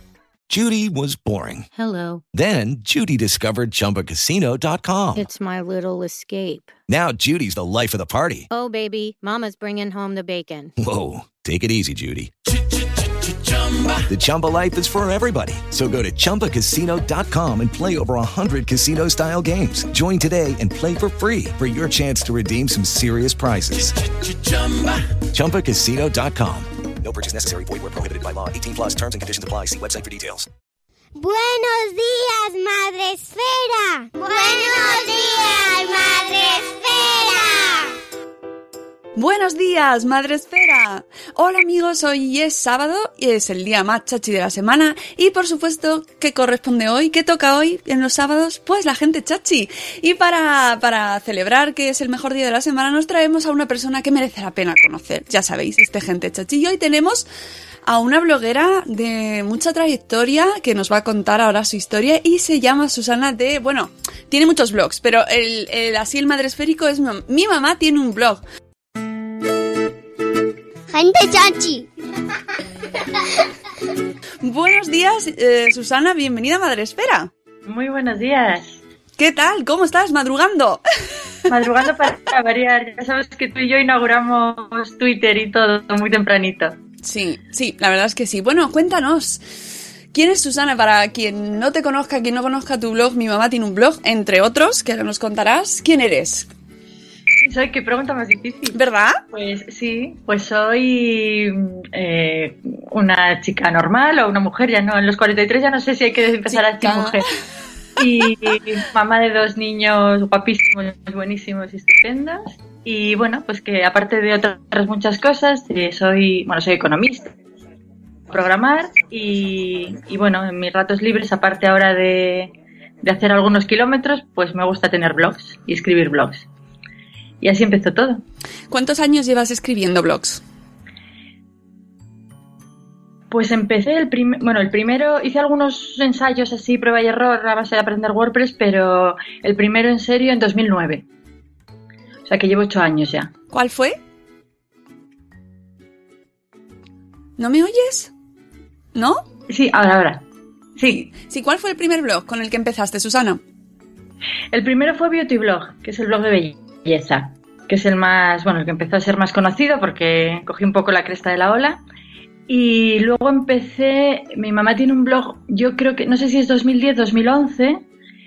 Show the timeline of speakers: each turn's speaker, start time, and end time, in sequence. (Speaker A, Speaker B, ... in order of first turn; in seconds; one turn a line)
Speaker A: 0.5-1.7
Speaker B: 1.7-2.2
Speaker A: 2.3-5.2
Speaker B: 5.2-6.7
Speaker A: 6.9-8.5
Speaker B: 8.5-10.7
Speaker A: 10.8-12.3
Speaker A: 14.1-30.5
Speaker C: 31.1-37.9
Speaker D: 39.2-57.3
Speaker D: 57.9-68.4
Speaker C: 70.9-71.9
Speaker D: 74.4-77.3
Speaker E: 77.7-78.8
Speaker D: 79.2-80.8
Speaker E: 81.5-86.8
Speaker D: 87.0-89.6
Speaker D: 90.1-96.5
Speaker E: 97.4-98.8
Speaker D: 98.7-99.2
Speaker E: 99.3-107.2
Speaker D: 106.5-107.2
Speaker E: 108.0-117.3
Speaker E: 118.3-122.5
Speaker E: 123.0-126.5
Speaker E: 127.4-128.2
Speaker D: 128.7-130.4
Speaker E: 133.3-141.1
Speaker E: 142.3-143.3
Speaker D: 143.5-144.0
Speaker D: 147.4-148.1
Speaker D: 148.9-149.2
Speaker E: 149.5-150.2
Speaker E: 150.8-151.1
Speaker D: 151.2-153.4
Speaker E: 154.5-161.8
Speaker E: 162.5-167.8